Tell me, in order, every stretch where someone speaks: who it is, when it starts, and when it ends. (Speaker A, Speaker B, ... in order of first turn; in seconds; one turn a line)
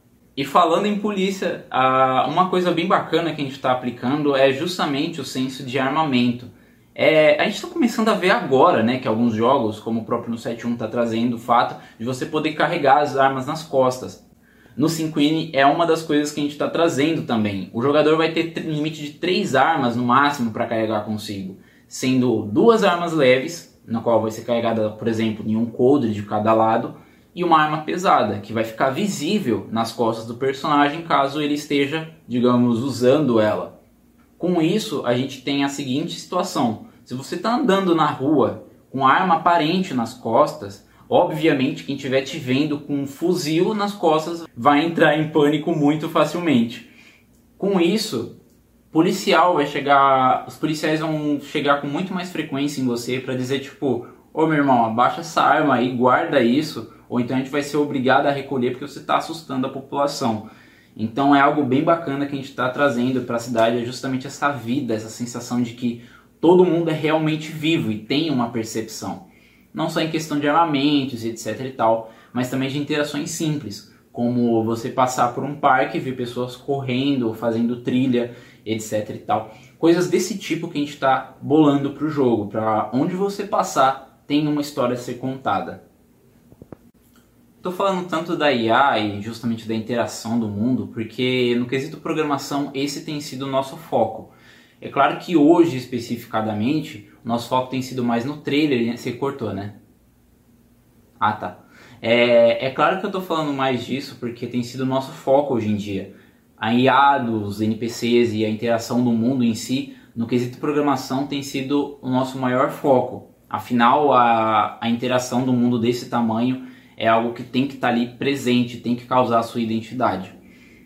Speaker A: 0.3-14.2
Speaker A: 14.8-33.8
Speaker A: 34.4-46.9
Speaker A: 47.6-48.4
Speaker A: 48.9-85.8
Speaker A: 87.6-99.8
Speaker A: 101.2-120.3